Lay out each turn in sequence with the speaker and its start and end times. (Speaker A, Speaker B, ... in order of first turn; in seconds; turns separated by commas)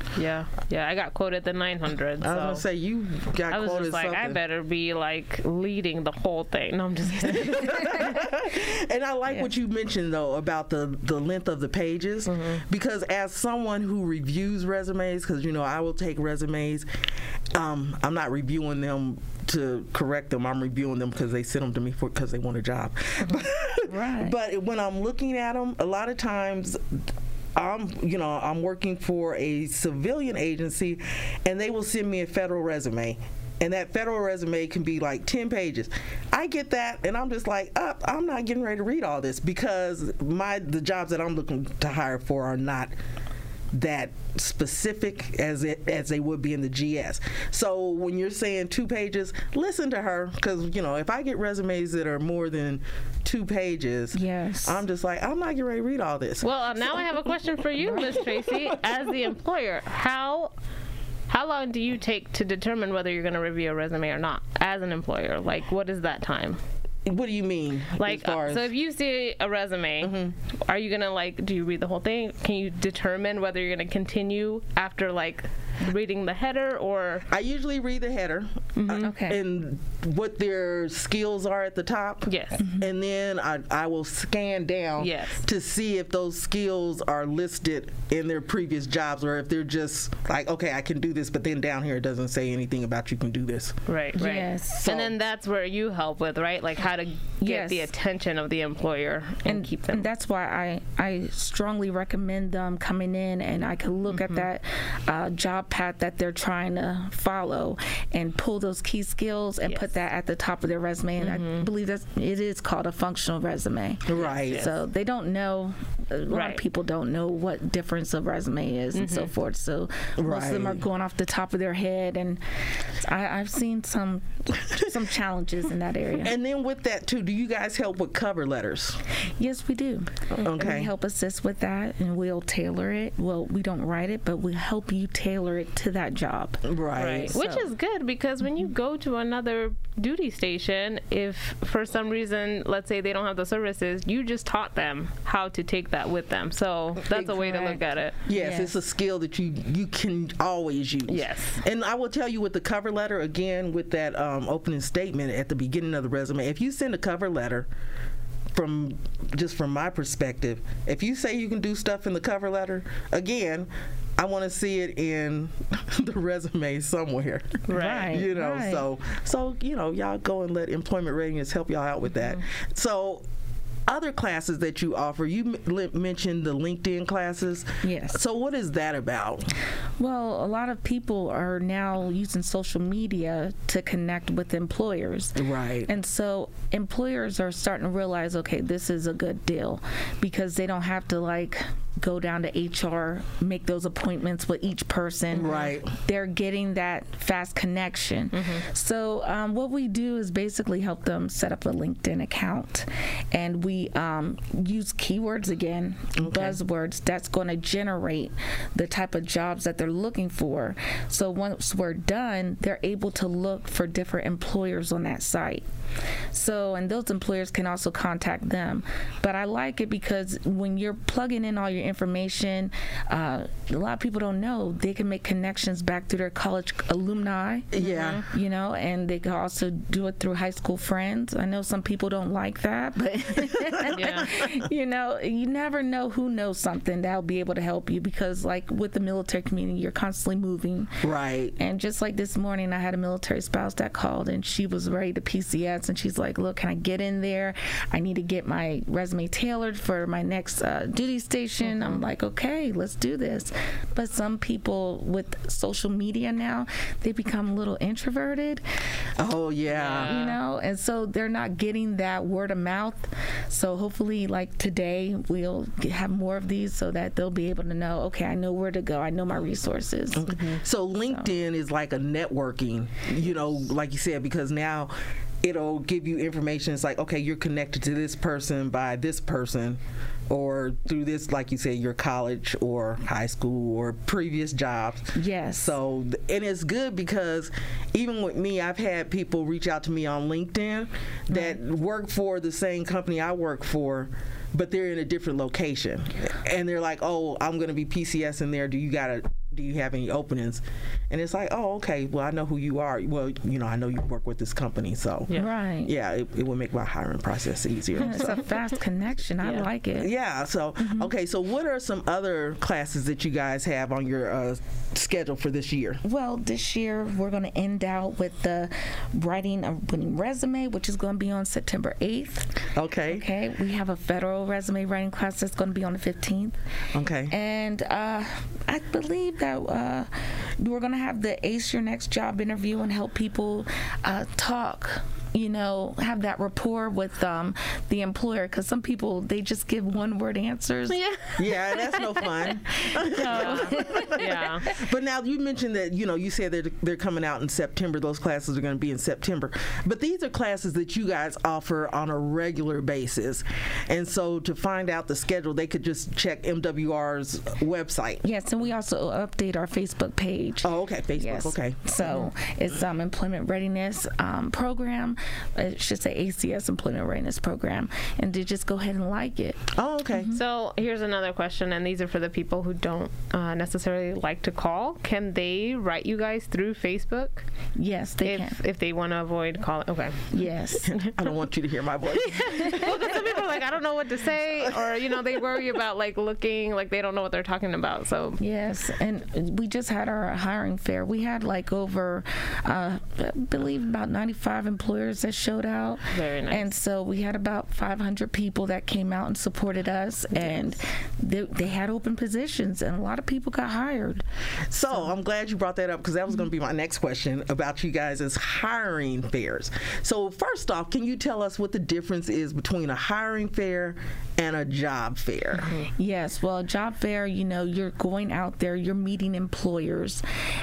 Speaker A: 0.1-2.6, Speaker B: 2.2-4.4, Speaker A: 3.5-8.3, Speaker B: 7.2-16.9, Speaker A: 12.3-12.6, Speaker B: 17.5-27.0, Speaker C: 23.9-24.4, Speaker B: 27.6-42.9, Speaker B: 43.7-57.0, Speaker C: 54.1-54.8, Speaker A: 56.4-60.5, Speaker C: 57.9-58.2, Speaker B: 57.9-58.8, Speaker A: 61.3-66.6, Speaker B: 67.1-68.7, Speaker A: 68.0-77.3, Speaker B: 70.0-70.3, Speaker B: 77.3-93.8, Speaker A: 78.8-79.1, Speaker C: 79.0-79.4, Speaker A: 82.3-82.6, Speaker C: 82.6-82.8, Speaker A: 85.0-85.4, Speaker A: 93.9-100.1, Speaker C: 94.2-94.9, Speaker B: 94.7-95.2, Speaker C: 97.4-97.9, Speaker C: 99.5-126.3, Speaker A: 104.1-104.4, Speaker A: 111.2-111.7, Speaker B: 114.1-114.7, Speaker A: 114.1-114.7, Speaker A: 116.3-116.6, Speaker A: 119.0-119.3, Speaker B: 120.2-120.9, Speaker B: 126.2-129.0, Speaker C: 129.4-136.7, Speaker B: 130.4-130.9, Speaker B: 136.6-137.3, Speaker A: 137.0-148.2, Speaker C: 137.3-137.7, Speaker B: 147.1-147.5, Speaker C: 147.4-148.7, Speaker B: 148.3-157.7, Speaker A: 151.1-151.6, Speaker B: 158.5-173.2, Speaker A: 167.7-168.2, Speaker C: 167.7-168.9, Speaker B: 173.9-179.5, Speaker C: 177.8-178.2, Speaker C: 180.0-215.7, Speaker B: 185.4-185.9, Speaker B: 195.3-195.9, Speaker A: 195.4-195.7, Speaker A: 198.4-198.6, Speaker B: 206.2-206.6, Speaker C: 216.3-241.0, Speaker B: 227.7-228.2, Speaker A: 227.8-228.2, Speaker B: 233.5-234.0, Speaker A: 233.9-234.4, Speaker B: 241.0-241.6, Speaker C: 241.6-258.6, Speaker A: 251.6-252.0, Speaker B: 259.2-260.2, Speaker A: 259.7-260.4, Speaker C: 260.0-270.4, Speaker B: 270.1-308.5, Speaker C: 285.1-285.8, Speaker C: 291.3-291.6, Speaker C: 305.3-305.9, Speaker C: 308.0-310.1, Speaker A: 309.4-309.7, Speaker B: 310.0-316.0, Speaker C: 310.8-311.1, Speaker C: 316.0-326.6, Speaker B: 322.8-323.3, Speaker B: 326.9-327.4, Speaker C: 327.3-341.0, Speaker A: 340.9-342.1, Speaker B: 341.4-358.2, Speaker C: 342.8-344.8, Speaker A: 343.1-344.7, Speaker C: 358.2-370.4, Speaker B: 360.6-362.2, Speaker B: 369.7-370.4, Speaker A: 370.3-377.5, Speaker C: 377.8-378.6, Speaker A: 378.2-380.4, Speaker C: 380.3-381.0, Speaker B: 380.9-383.6, Speaker A: 382.1-388.4, Speaker C: 382.5-383.1, Speaker B: 384.6-385.0, Speaker C: 388.4-404.2, Speaker A: 396.1-396.7, Speaker B: 404.7-415.7, Speaker C: 415.8-420.2